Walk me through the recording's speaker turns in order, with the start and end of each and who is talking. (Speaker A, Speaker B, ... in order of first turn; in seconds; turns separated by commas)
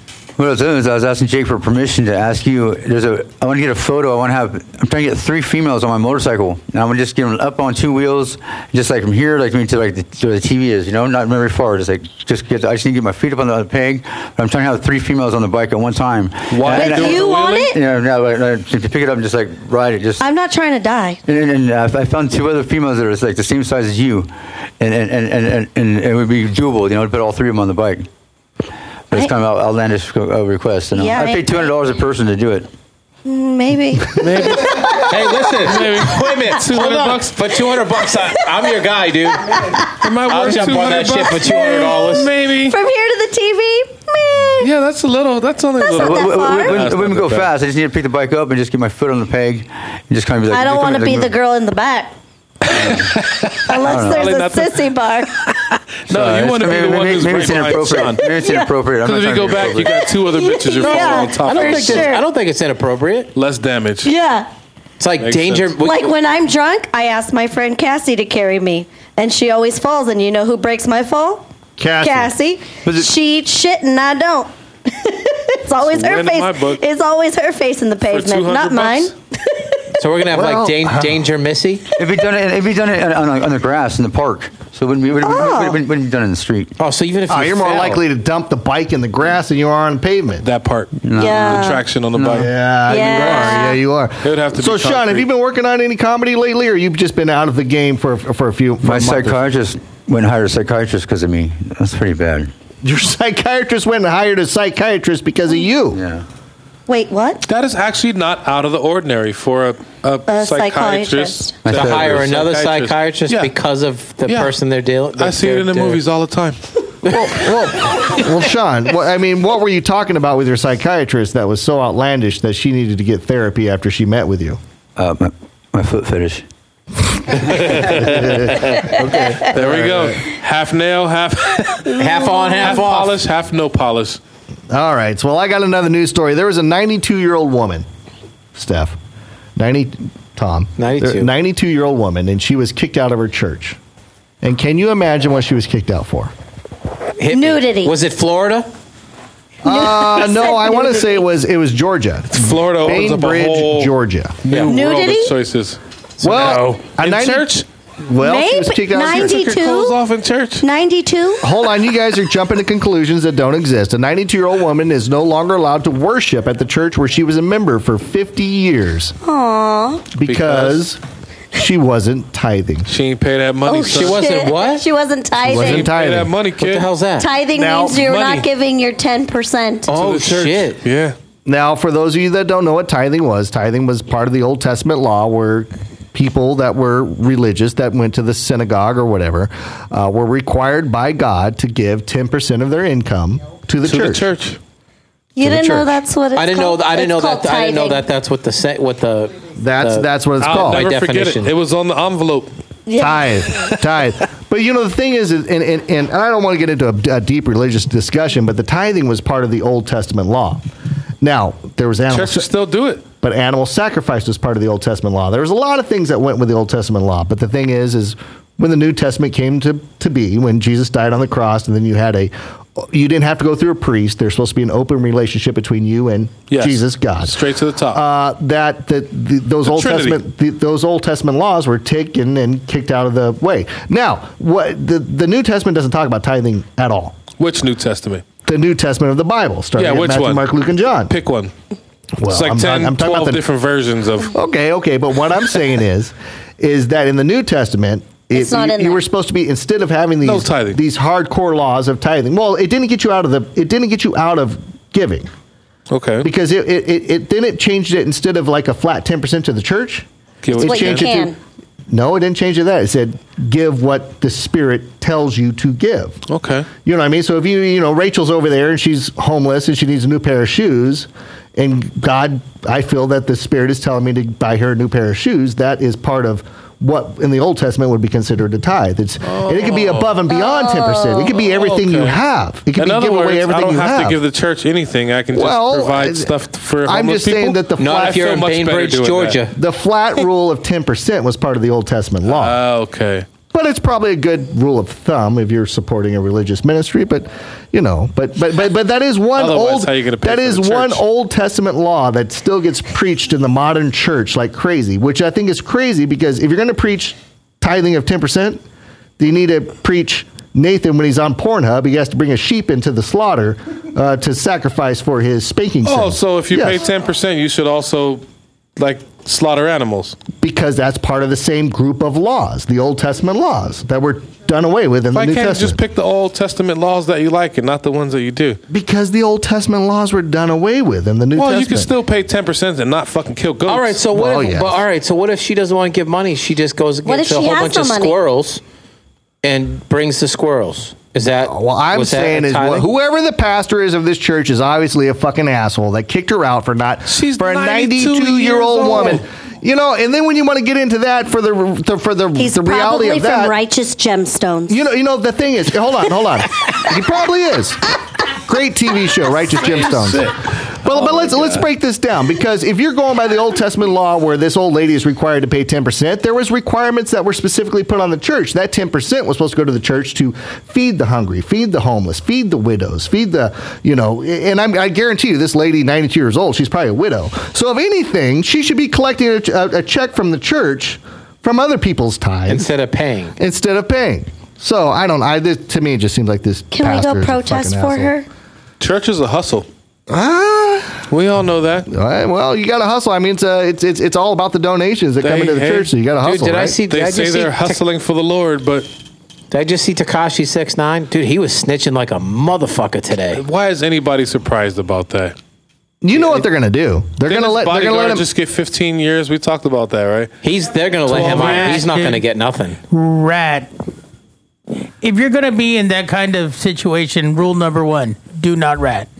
Speaker A: 0.4-20.2, Speaker B: 16.5-17.7, Speaker C: 16.7-17.8, Speaker C: 20.2-21.2, Speaker A: 21.3-28.1, Speaker A: 29.1-32.7, Speaker C: 30.9-31.5, Speaker C: 33.2-35.1, Speaker B: 34.2-37.6, Speaker D: 35.0-39.7, Speaker B: 40.0-42.7, Speaker D: 40.2-42.3, Speaker C: 41.6-41.8, Speaker C: 42.7-44.7, Speaker B: 44.6-47.5, Speaker C: 45.8-46.8, Speaker A: 45.9-51.3, Speaker C: 50.5-52.1, Speaker B: 52.7-54.8, Speaker A: 52.8-53.1, Speaker C: 53.6-55.3, Speaker A: 53.8-54.3, Speaker B: 55.4-58.2, Speaker A: 56.1-60.0, Speaker C: 58.2-58.7, Speaker B: 59.0-62.1, Speaker C: 59.9-62.2, Speaker D: 60.8-63.3, Speaker B: 63.3-64.1, Speaker C: 64.0-64.5, Speaker D: 65.0-66.1, Speaker B: 65.2-65.7, Speaker C: 65.8-71.5, Speaker E: 71.8-72.3, Speaker C: 72.0-79.7, Speaker A: 72.8-73.1, Speaker B: 75.9-76.8, Speaker B: 78.1-79.1, Speaker D: 80.0-81.8, Speaker E: 80.3-81.2, Speaker A: 82.0-86.7, Speaker C: 85.2-85.8, Speaker D: 86.8-88.0, Speaker E: 87.3-90.5, Speaker B: 90.4-93.7, Speaker A: 91.0-92.5, Speaker C: 91.2-91.8, Speaker E: 92.3-99.4, Speaker C: 92.9-93.8, Speaker B: 94.2-95.3, Speaker A: 98.8-102.5, Speaker E: 102.8-106.0, Speaker A: 105.9-106.2, Speaker C: 106.9-107.4, Speaker B: 107.5-113.5, Speaker C: 110.3-111.5, Speaker A: 111.6-112.3, Speaker D: 111.7-116.0, Speaker B: 114.2-114.5, Speaker B: 115.2-116.6, Speaker D: 117.0-118.0, Speaker E: 117.1-124.6, Speaker A: 125.0-126.4, Speaker E: 127.3-130.2, Speaker B: 127.4-134.2, Speaker D: 132.0-133.2, Speaker E: 134.7-137.8, Speaker E: 138.5-139.0, Speaker E: 139.6-143.8, Speaker D: 140.8-141.3, Speaker E: 144.4-146.3, Speaker D: 147.2-148.7, Speaker C: 147.3-147.9, Speaker E: 149.6-154.4, Speaker C: 149.7-151.2, Speaker B: 152.3-153.9, Speaker B: 154.4-157.6, Speaker C: 154.7-155.3, Speaker D: 156.2-156.8, Speaker E: 156.2-159.4, Speaker C: 158.2-160.0, Speaker B: 159.0-160.6, Speaker C: 160.6-161.4, Speaker E: 161.4-169.1, Speaker C: 169.2-170.0, Speaker E: 170.1-171.0, Speaker B: 170.2-170.8, Speaker E: 171.5-172.9, Speaker B: 172.9-174.3, Speaker C: 173.7-175.9, Speaker D: 173.9-174.8, Speaker E: 175.4-176.3, Speaker B: 175.5-176.9, Speaker D: 176.6-177.3, Speaker C: 177.2-179.9, Speaker E: 177.5-178.0, Speaker B: 177.9-178.4, Speaker D: 179.9-180.8, Speaker B: 179.9-181.2, Speaker E: 181.4-194.2, Speaker B: 193.8-194.6, Speaker C: 195.3-198.0, Speaker E: 195.4-196.0, Speaker D: 196.3-201.5, Speaker E: 199.6-200.8, Speaker B: 200.4-202.5, Speaker C: 202.9-203.3, Speaker E: 203.0-210.6, Speaker E: 211.2-212.5, Speaker B: 212.1-213.0, Speaker E: 213.2-227.4, Speaker B: 226.5-228.0, Speaker E: 227.9-237.2, Speaker B: 229.6-230.2, Speaker B: 237.4-238.2, Speaker E: 238.4-241.1, Speaker B: 239.8-240.5, Speaker B: 241.1-241.5, Speaker E: 242.2-243.4, Speaker B: 242.3-244.3, Speaker E: 244.3-255.3, Speaker C: 248.3-249.0, Speaker B: 250.2-250.8, Speaker B: 255.9-256.3, Speaker E: 256.2-261.3, Speaker B: 260.4-261.1, Speaker C: 260.6-261.4, Speaker E: 261.9-266.2, Speaker B: 266.3-266.7, Speaker E: 266.8-284.2, Speaker B: 279.2-280.2, Speaker C: 280.3-281.3, Speaker B: 281.5-282.2, Speaker B: 282.8-289.4, Speaker E: 285.3-286.3, Speaker E: 286.8-288.2, Speaker D: 287.8-289.5, Speaker E: 289.5-292.6, Speaker B: 292.3-293.2, Speaker E: 293.5-308.6, Speaker B: 299.4-301.0, Speaker E: 309.2-316.8, Speaker B: 315.8-318.2, Speaker B: 318.8-320.2, Speaker E: 320.4-325.8, Speaker B: 325.1-328.6, Speaker E: 328.7-331.9, Speaker B: 331.3-334.0, Speaker D: 333.6-338.6, Speaker E: 334.1-334.8, Speaker C: 337.0-338.2, Speaker D: 339.4-342.9, Speaker E: 341.4-353.5, Speaker B: 347.1-349.2, Speaker C: 352.4-354.8, Speaker E: 354.7-382.7, Speaker B: 359.6-361.6, Speaker D: 382.5-383.4, Speaker E: 383.4-388.1, Speaker C: 386.7-388.3, Speaker B: 388.8-389.7, Speaker E: 390.1-391.1, Speaker B: 391.1-391.9, Speaker E: 391.9-396.8, Speaker B: 395.2-395.9, Speaker D: 396.2-397.8, Speaker B: 396.9-398.9, Speaker D: 399.5-403.4, Speaker B: 403.3-405.3, Speaker E: 406.0-408.2, Speaker B: 407.2-410.3, Speaker D: 410.4-412.8, Speaker B: 411.0-412.2, Speaker F: 411.1-411.9, Speaker F: 412.9-413.7, Speaker F: 415.0-419.1